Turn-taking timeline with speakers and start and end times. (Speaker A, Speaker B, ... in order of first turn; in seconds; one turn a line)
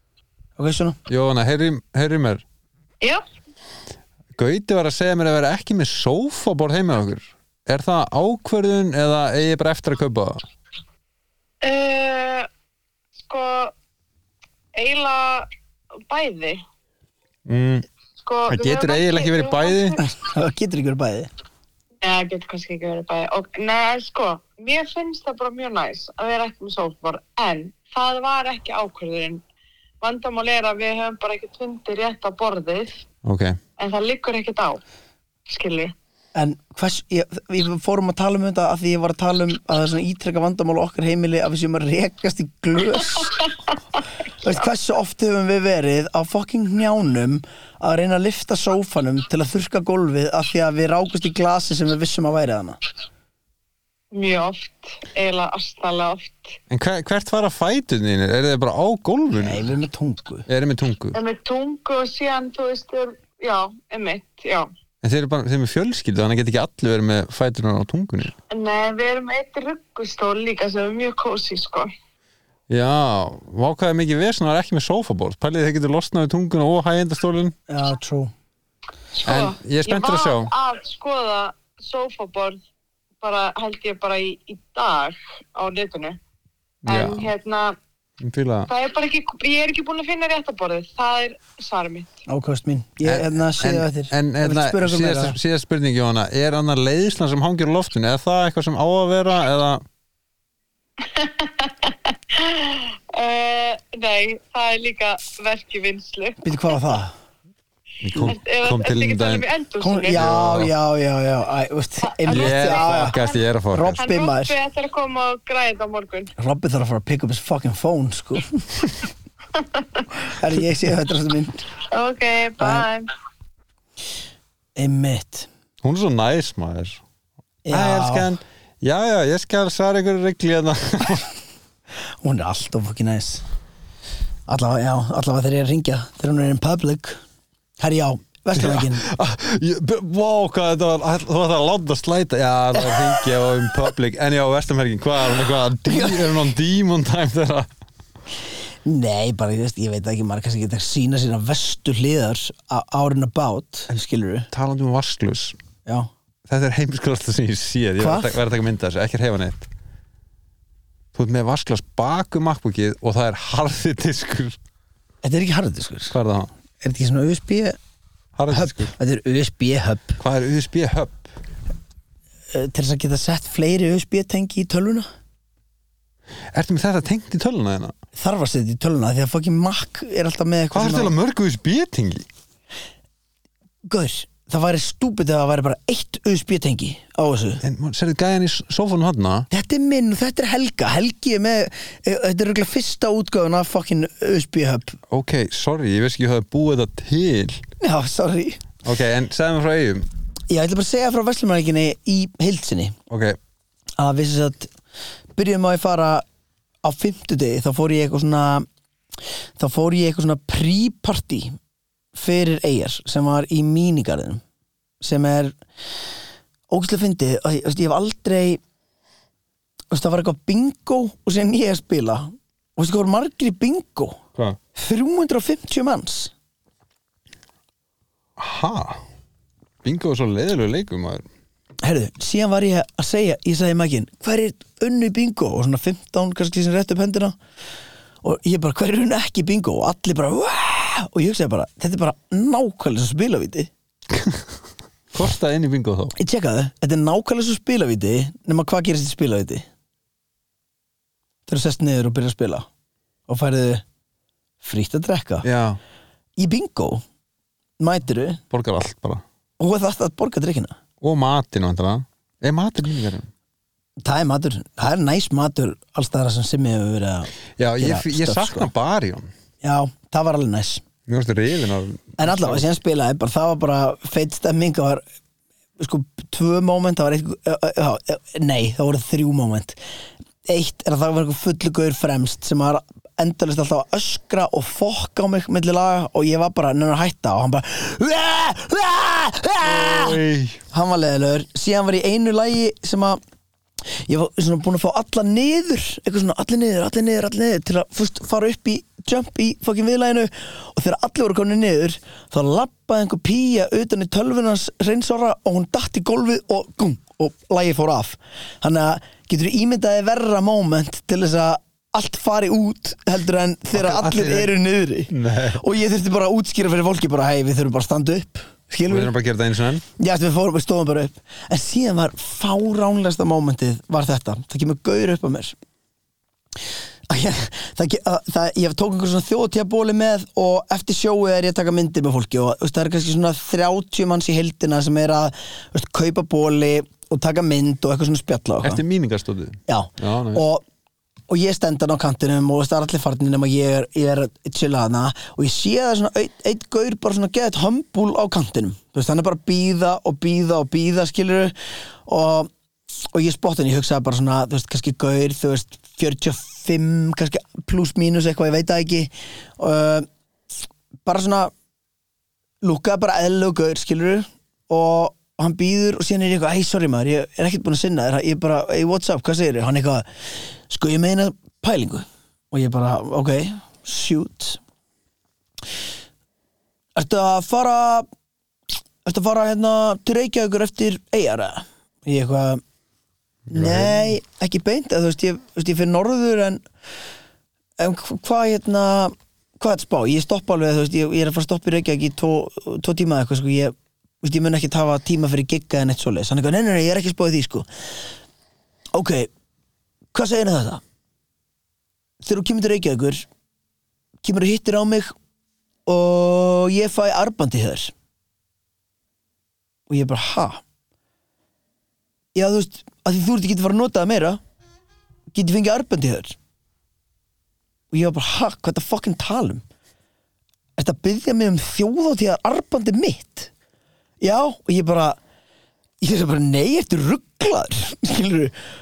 Speaker A: 0.6-1.0
Speaker B: 1.1-2.4
Speaker B: 4.4-10.4
Speaker C: 11.6-12.5
Speaker C: 13.2-13.7
Speaker C: 14.8-15.5
Speaker C: 16.1-16.6
Speaker B: 17.5-17.9
Speaker C: 18.2-20.0
Speaker B: 18.5-20.0
Speaker A: 20.0-21.3
Speaker C: 22.0-29.4
Speaker C: 30.0-33.0
Speaker B: 33.2-33.6
Speaker C: 33.8-34.8
Speaker C: 35.5-35.9
Speaker A: 36.4-43.4
Speaker A: 44.4-52.8
Speaker C: 54.1-56.6
Speaker B: 56.7-59.7
Speaker A: 59.4-60.5
Speaker B: 60.5-61.2
Speaker C: 61.1-64.7
Speaker B: 65.0-68.3
Speaker C: 68.5-71.9
Speaker B: 72.7-77.5
Speaker A: 77.7-78.3
Speaker C: 79.2-82.6
Speaker B: 79.2-80.5
Speaker C: 83.2-86.2
Speaker B: 86.8-87.3
Speaker C: 86.9-87.8
Speaker B: 88.2-88.7
Speaker C: 88.7-92.2
Speaker A: 92.3-95.4
Speaker B: 93.0-99.8
Speaker C: 101.0-106.4
Speaker A: 106.4-107.1
Speaker B: 108.0-109.5
Speaker C: 108.2-110.2
Speaker A: 109.8-113.2
Speaker B: 110.1-110.7
Speaker C: 112.1-113.4
Speaker B: 112.3-114.0
Speaker A: 113.7-114.5
Speaker C: 114.0-116.3
Speaker A: 116.4-118.8
Speaker C: 119.5-120.0
Speaker A: 120.2-121.7
Speaker C: 121.9-123.1
Speaker A: 122.6-122.9
Speaker A: 124.8-125.5
Speaker B: 125.8-127.0
Speaker A: 127.7-128.3
Speaker B: 127.7-131.3
Speaker A: 132.2-133.4
Speaker A: 134.5-137.2
Speaker A: 137.8-139.1
Speaker B: 138.6-147.7
Speaker A: 142.8-143.2
Speaker A: 145.8-146.4
Speaker A: 148.8-154.5
Speaker B: 154.5-155.6
Speaker B: 156.5-159.7
Speaker A: 158.0-158.4
Speaker B: 161.1-164.6
Speaker A: 165.2-166.2
Speaker B: 166.1-166.5
Speaker A: 166.8-167.8
Speaker B: 168.4-168.9
Speaker A: 168.5-170.2
Speaker B: 170.2-171.3
Speaker A: 172.5-175.1
Speaker B: 176.5-177.9
Speaker A: 178.2-181.1
Speaker B: 180.7-182.3
Speaker A: 183.9-187.6
Speaker B: 187.6-189.5
Speaker A: 189.5-195.0
Speaker B: 195.1-197.6
Speaker A: 197.8-198.6
Speaker B: 198.8-200.1
Speaker A: 200.5-203.0
Speaker B: 203.1-203.4
Speaker A: 204.0-204.7
Speaker A: 205.4-206.2
Speaker A: 206.8-208.7
Speaker A: 209.6-211.6
Speaker A: 212.2-214.4
Speaker A: 215.0-215.6
Speaker A: 216.7-218.6
Speaker A: 219.9-224.2
Speaker A: 224.8-226.3
Speaker B: 228.4-229.0
Speaker B: 229.8-231.3
Speaker A: 231.8-237.3
Speaker A: 238.2-243.7
Speaker B: 244.2-244.4
Speaker B: 245.1-246.2
Speaker A: 246.2-249.7
Speaker A: 251.5-252.7
Speaker A: 253.3-253.8
Speaker A: 254.6-255.5
Speaker B: 255.4-255.8
Speaker A: 256.4-257.0
Speaker A: 257.8-258.4
Speaker B: 258.5-259.2
Speaker A: 259.6-260.8
Speaker B: 261.0-263.3
Speaker A: 264.0-268.7
Speaker B: 267.6-269.3
Speaker A: 269.6-270.9
Speaker B: 271.1-272.7
Speaker A: 272.2-275.0
Speaker A: 275.8-279.8
Speaker A: 280.5-290.2
Speaker B: 289.6-290.6
Speaker A: 290.7-293.2
Speaker A: 294.0-319.1
Speaker B: 313.7-314.5
Speaker B: 315.1-315.6
Speaker B: 318.9-319.8
Speaker A: 320.0-325.6
Speaker A: 327.1-338.8
Speaker B: 338.6-340.4
Speaker A: 339.7-340.6
Speaker A: 341.3-351.5
Speaker A: 352.1-352.5
Speaker A: 353.1-360.1
Speaker A: 361.1-361.5
Speaker A: 362.6-370.1
Speaker A: 370.7-374.6
Speaker A: 377.0-378.1
Speaker A: 379.1-382.6
Speaker B: 383.5-384.1
Speaker A: 383.5-386.6
Speaker A: 387.8-397.7
Speaker A: 398.9-399.3
Speaker A: 400.1-400.8
Speaker A: 402.2-403.3
Speaker A: 404.2-405.1
Speaker A: 405.9-407.9
Speaker A: 409.9-410.6
Speaker A: 412.4-414.4
Speaker A: 415.3-416.4
Speaker A: 417.9-419.6
Speaker A: 420.8-423.5
Speaker A: 424.2-425.2
Speaker A: 426.0-428.6